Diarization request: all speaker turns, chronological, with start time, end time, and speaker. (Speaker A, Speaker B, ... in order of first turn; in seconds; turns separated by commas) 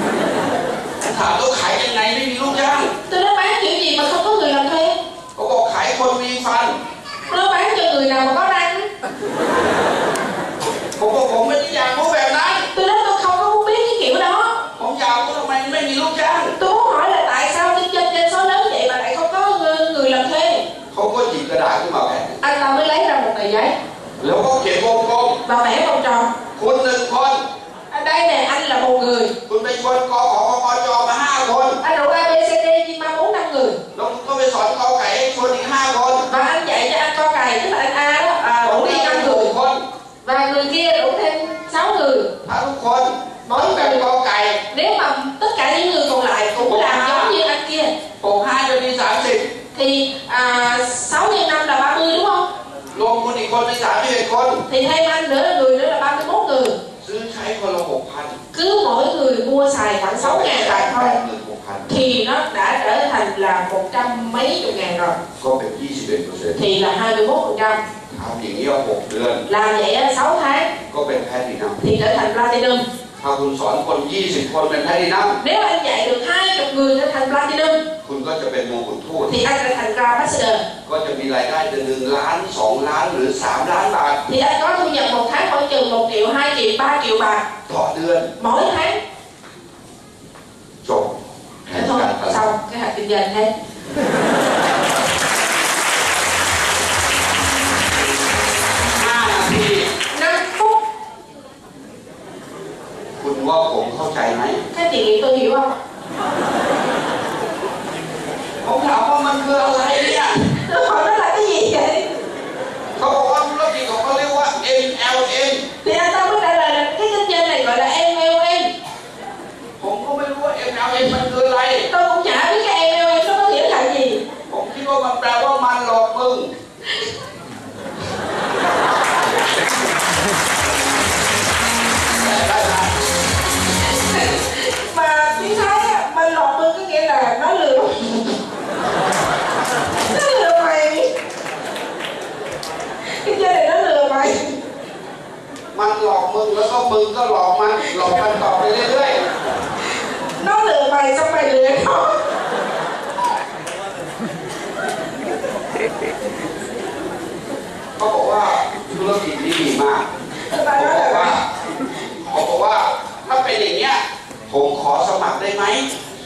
Speaker A: 1.0-2.9, Speaker B: 3.1-5.0, Speaker A: 5.3-6.8, Speaker B: 7.3-8.9, Speaker A: 11.0-12.7, Speaker B: 12.7-14.6, Speaker A: 14.8-16.6, Speaker B: 16.6-20.6, Speaker A: 20.9-22.4, Speaker B: 22.4-23.8, Speaker A: 24.2-25.4, Speaker B: 25.4-26.3, Speaker A: 26.5-27.4, Speaker B: 27.9-29.3, Speaker A: 29.5-31.8, Speaker B: 31.8-33.8, Speaker A: 33.9-36.3, Speaker B: 36.3-39.5, Speaker A: 38.4-39.8, Speaker B: 40.2-42.3, Speaker A: 42.4-44.6, Speaker B: 43.5-44.0, Speaker B: 44.7-47.9, Speaker A: 46.6-47.4, Speaker A: 48.2-49.5, Speaker B: 49.7-52.5, Speaker A: 52.9-54.6, Speaker B: 54.7-56.8, Speaker A: 57.0-58.4, Speaker B: 58.5-61.2, Speaker A: 60.2-62.0, Speaker B: 61.9-65.2, Speaker A: 65.4-66.6, Speaker B: 66.5-67.8, Speaker A: 68.1-69.4, Speaker B: 69.5-70.7, Speaker A: 70.8-71.8, Speaker B: 71.8-72.8, Speaker A: 73.2-75.4, Speaker B: 75.4-77.8, Speaker A: 78.0-79.4, Speaker B: 79.3-80.6, Speaker A: 80.8-84.2, Speaker B: 84.3-87.5, Speaker A: 87.7-88.3, Speaker B: 88.4-89.0, Speaker A: 90.8-92.4, Speaker B: 91.7-93.5, Speaker A: 98.9-99.9, Speaker B: 100.1-100.8, Speaker A: 103.2-104.6, Speaker B: 104.7-105.8, Speaker A: 108.6-110.4, Speaker B: 110.3-112.1, Speaker A: 113.0-115.7, Speaker B: 115.8-118.7, Speaker A: 119.8-121.9, Speaker B: 121.9-124.2, Speaker A: 124.5-126.5, Speaker A: 132.2-133.0, Speaker B: 133.8-138.4, Speaker B: 140.0-141.1, Speaker B: 143.1-144.6, Speaker A: 145.7-149.2, Speaker B: 150.4-152.2, Speaker A: 158.0-160.1, Speaker B: 160.5-161.4, Speaker A: 160.7-161.4, Speaker A: 162.3-165.9